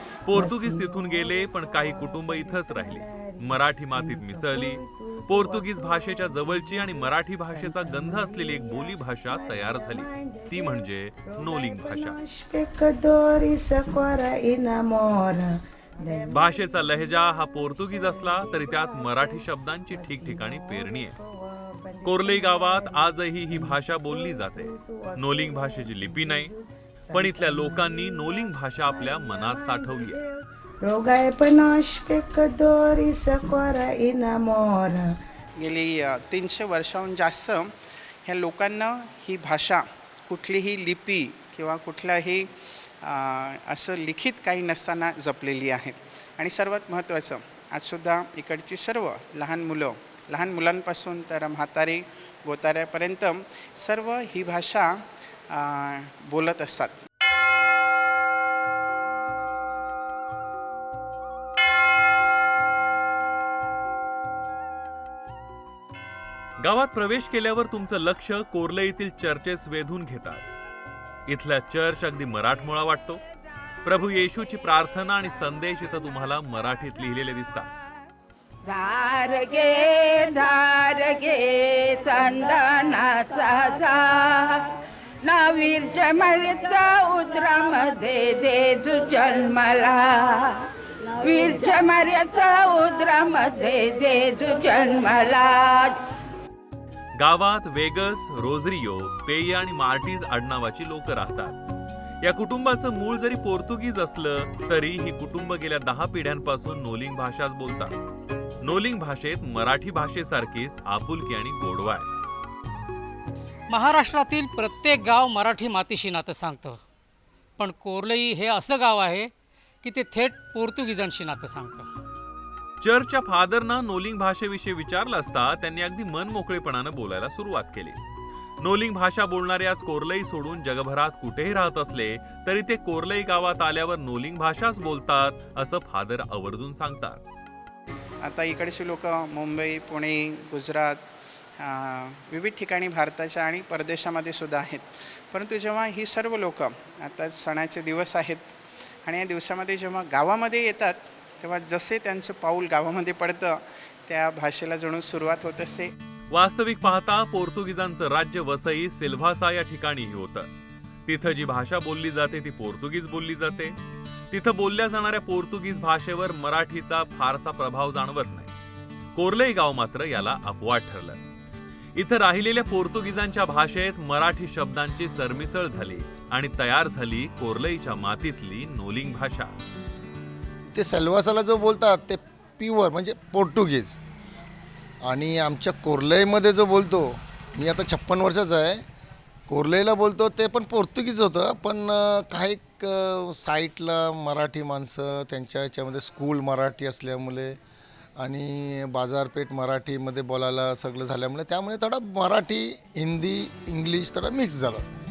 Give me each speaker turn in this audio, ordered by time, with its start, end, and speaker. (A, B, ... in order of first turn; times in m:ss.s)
0:00.2-0:12.2 A
0:00.3-0:15.5 B
0:16.0-0:35.0 B
0:16.3-0:21.1 A
0:22.0-0:26.5 A
0:27.1-0:30.2 A
0:35.6-0:57.0 C
1:06.6-1:10.4 A
1:11.3-1:13.2 A
1:13.8-1:17.7 A
1:18.6-1:36.1 D
1:37.2-1:41.6 A
1:42.2-1:48.0 A
1:48.6-1:52.1 A
1:53.7-1:56.8 E
1:57.6-1:59.3 E
1:59.8-2:01.9 E
2:02.8-2:08.0 A
2:08.6-2:17.2 A
2:18.2-2:21.0 C
2:21.6-2:35.9 C
2:36.3-2:40.5 A
2:41.0-2:43.7 A
2:44.3-2:48.5 A
2:49.1-2:51.2 A
2:52.0-2:59.5 A
3:00.7-3:04.0 F
3:05.0-3:08.8 F
3:09.5-3:17.6 F
3:18.2-3:24.8 F